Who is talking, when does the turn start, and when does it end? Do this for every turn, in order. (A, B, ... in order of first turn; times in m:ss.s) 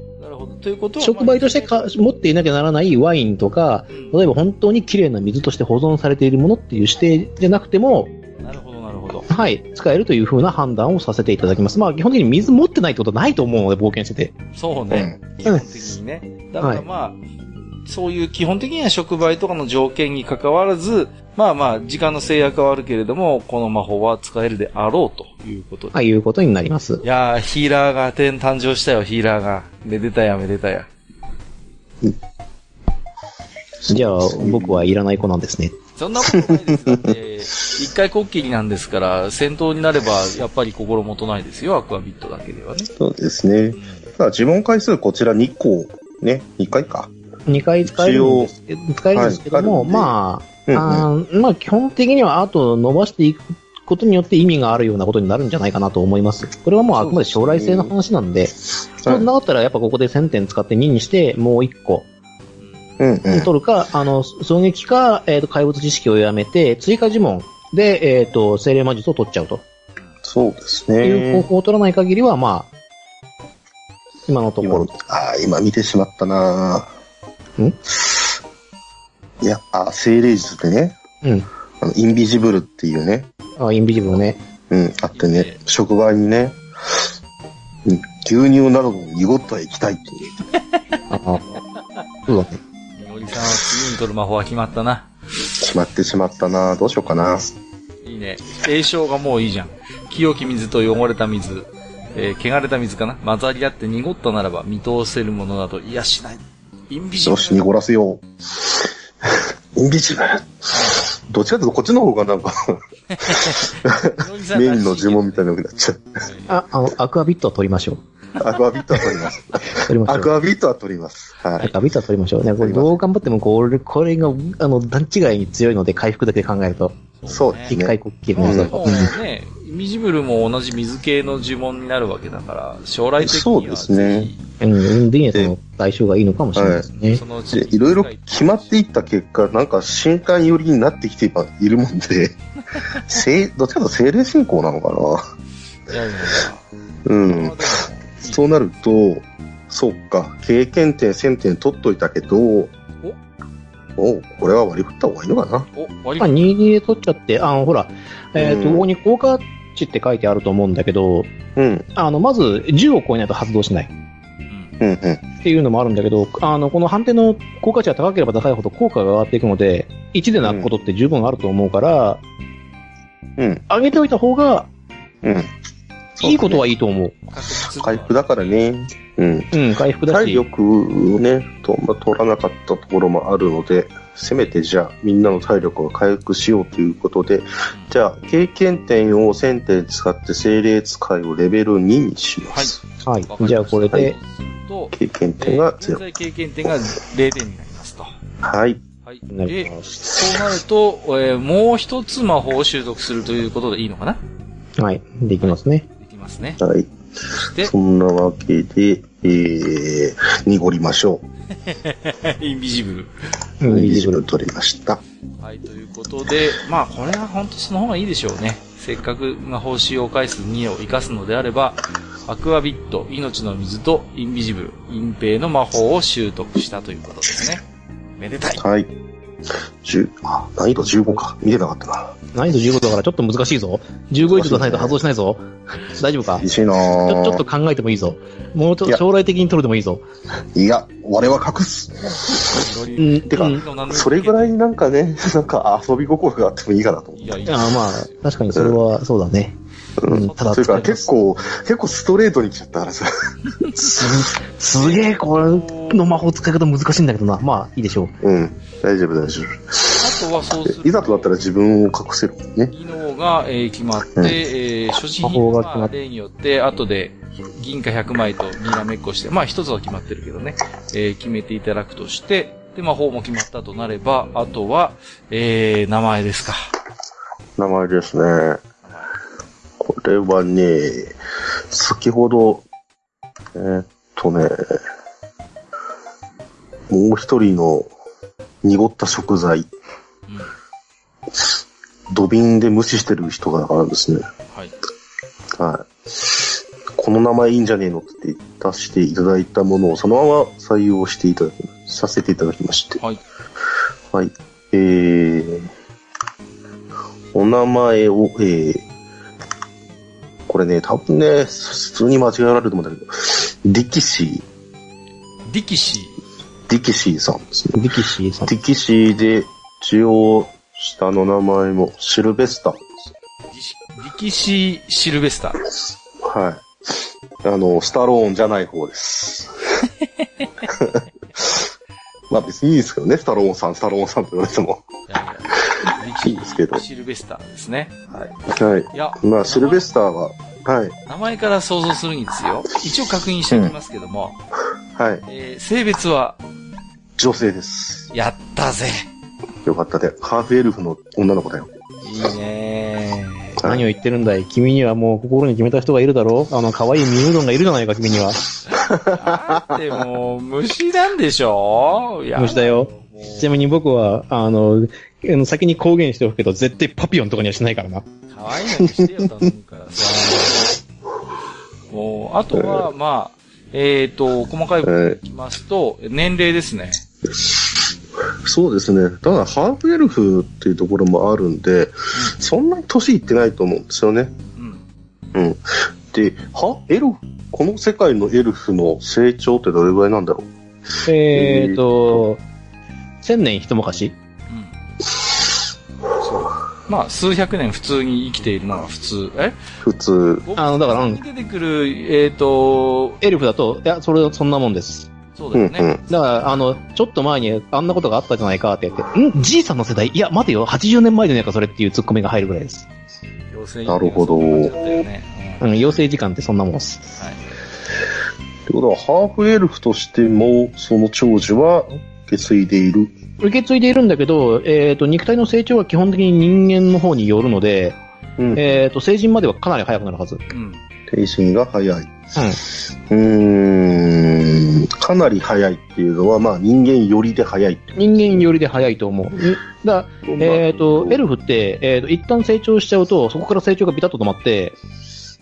0:00.2-0:01.9 A
0:01.0-0:08.1 B
0:03.9-0:04.2 A
0:08.4-0:09.3 A
0:09.3-0:14.3 B
0:14.5-0:17.2 A
0:14.9-0:15.2 C
0:17.8-0:26.0 A
0:25.9-0:27.0 B
0:27.0-0:30.9 A
0:33.8-0:34.8 C
0:33.9-0:35.8 B
0:36.0-0:42.9 A
0:36.3-0:37.0 C
0:43.0-0:47.1 C
0:43.7-0:44.1 A
0:47.5-1:02.1 B
0:47.8-0:48.5 C
0:49.1-0:50.1 C
0:50.6-0:51.0 C
0:57.0-0:57.9 C
1:02.6-1:03.0 A
1:03.0-1:03.5 C
1:03.3-1:09.6 B
1:10.2-1:11.5 C
1:11.0-1:12.7 B
1:14.3-1:14.9 B
1:14.6-1:16.9 C
1:19.4-1:20.9 C
1:21.2-1:21.5 B
1:21.8-1:23.3 C
1:23.6-1:24.4 B
1:24.7-1:26.6 C
1:25.1-1:25.6 A
1:27.8-1:30.4 C
1:31.1-1:31.4 B
1:32.3-1:32.6 B
1:33.0-1:35.1 A
1:35.6-1:37.5 C
1:38.0-1:47.6 A
1:47.2-1:50.7 C
1:50.7-1:51.1 A
1:51.3-1:56.2 C
1:53.1-1:55.5 A
1:56.2-1:56.6 A
1:56.5-1:58.0 B
1:58.4-2:01.7 C
1:59.9-2:00.3 B
2:01.6-2:06.9 B
2:02.6-2:02.9 C
2:07.1-2:07.7 A
2:07.3-2:08.8 C
2:07.7-2:09.1 B
2:08.3-2:14.4 A
2:13.2-2:14.3 C
2:14.6-2:17.2 B
2:16.6-2:16.9 C
2:17.1-2:18.7 A
2:17.5-2:22.4 C
2:23.0-2:25.2 C
2:25.9-2:26.6 A
2:27.0-2:27.5 C
2:27.3-2:28.4 A
2:28.2-2:32.7 C
2:34.0-2:35.7 C
2:35.7-2:36.4 A
2:36.2-2:41.3 B
2:38.4-2:38.8 C
2:41.6-2:41.9 C
2:42.0-2:43.9 B
2:44.8-2:45.2 C
2:45.4-2:52.2 B
2:50.4-2:50.7 C
2:53.4-2:53.6 C
2:53.7-2:54.7 B
2:55.2-2:55.5 C
2:56.2-2:56.6 C
2:56.2-2:57.2 B
2:57.3-2:58.6 A
2:57.8-3:12.8 C
2:59.5-3:00.4 B
3:12.5-3:18.1 A
3:13.0-3:14.1 B
3:14.9-3:16.0 C
3:18.4-3:18.8 C
3:19.0-3:24.2 A
3:19.3-3:19.8 B
3:24.8-3:25.8 B
3:25.4-3:26.6 A
3:26.6-3:26.9 C
3:27.3-3:27.7 A
3:27.6-3:31.2 C
3:31.6-3:33.1 A
3:33.6-3:34.2 B
3:33.7-3:35.0 C
3:35.4-3:47.6 A
3:48.2-3:48.6 A
3:48.6-3:48.9 C
3:49.8-3:52.2 C
3:52.3-3:56.4 B
3:54.2-3:55.0 C
3:56.4-3:57.4 C
3:57.0-4:00.0 B
4:00.5-4:02.6 C
4:02.4-4:04.6 A
4:03.0-4:03.6 B
4:03.3-4:07.3 C
4:07.2-4:08.2 A
4:07.5-4:11.0 B
4:08.5-4:08.8 C
4:10.0-4:13.1 C
4:10.1-4:11.1 A
4:13.8-4:14.1 C
4:13.8-4:18.1 B
4:14.7-4:16.0 A
4:18.2-4:20.0 C
4:20.0-4:21.3 A
4:20.7-4:22.7 C
4:22.7-4:36.7 A
4:25.2-4:25.9 B
4:37.6-4:38.6 C
4:39.8-4:41.1 C
4:41.7-4:42.6 C
4:43.5-4:44.8 C
4:46.9-4:47.9 C
4:48.6-4:49.7 C
4:52.1-4:54.2 C
4:55.6-4:56.4 C
4:57.0-5:03.0 C
5:04.1-5:05.7 C
5:07.3-5:08.8 C
5:10.5-5:14.4 C
5:15.5-5:16.2 A
5:16.7-5:17.9 C
5:17.7-5:18.5 B
5:18.4-5:22.9 C
5:23.5-5:25.6 A
5:26.2-5:29.8 C
5:30.2-5:30.7 A
5:30.7-5:31.6 C
5:32.3-5:34.8 C
5:35.1-5:38.0 A
5:36.2-5:36.8 C
5:38.4-5:40.9 C
5:38.9-5:39.9 A
5:41.0-5:44.4 A
5:44.9-5:45.2 C
5:45.2-5:46.4 A
5:47.2-5:48.1 C
5:48.1-5:49.1 A
5:49.6-5:51.7 C
5:52.0-5:53.6 A
5:53.6-5:53.8 C
5:53.6-5:58.4 B
5:58.6-6:03.5 A
5:58.8-5:59.7 C
6:02.4-6:08.0 B
6:08.3-6:10.7 A
6:08.8-6:09.3 C
6:11.9-6:17.0 A
6:12.6-6:12.9 C
6:14.8-6:15.2 C
6:18.4-6:24.3 C
6:24.6-6:24.8 A
6:25.3-6:25.6 C
6:26.1-6:30.5 C
6:31.0-6:32.4 B
6:31.3-6:32.2 C
6:33.2-6:34.1 B
6:34.5-6:34.8 A
6:36.2-6:39.6 A
6:39.8-6:40.4 C
6:40.4-6:43.2 A
6:40.6-6:41.2 B
6:43.2-6:45.1 B
6:45.3-6:45.9 A
6:45.5-6:46.0 C
6:46.1-6:52.8 B
6:53.5-6:55.6 A
6:53.9-6:54.9 C
6:55.6-6:57.2 B
6:58.7-7:03.1 C
7:03.4-7:08.0 B
7:08.4-7:08.8 C
7:08.5-7:10.4 B
7:10.5-7:10.8 A
7:11.1-7:12.1 C
7:12.4-7:12.6 B
7:13.1-7:18.5 C
7:18.0-7:24.8 B
7:20.2-7:21.2 C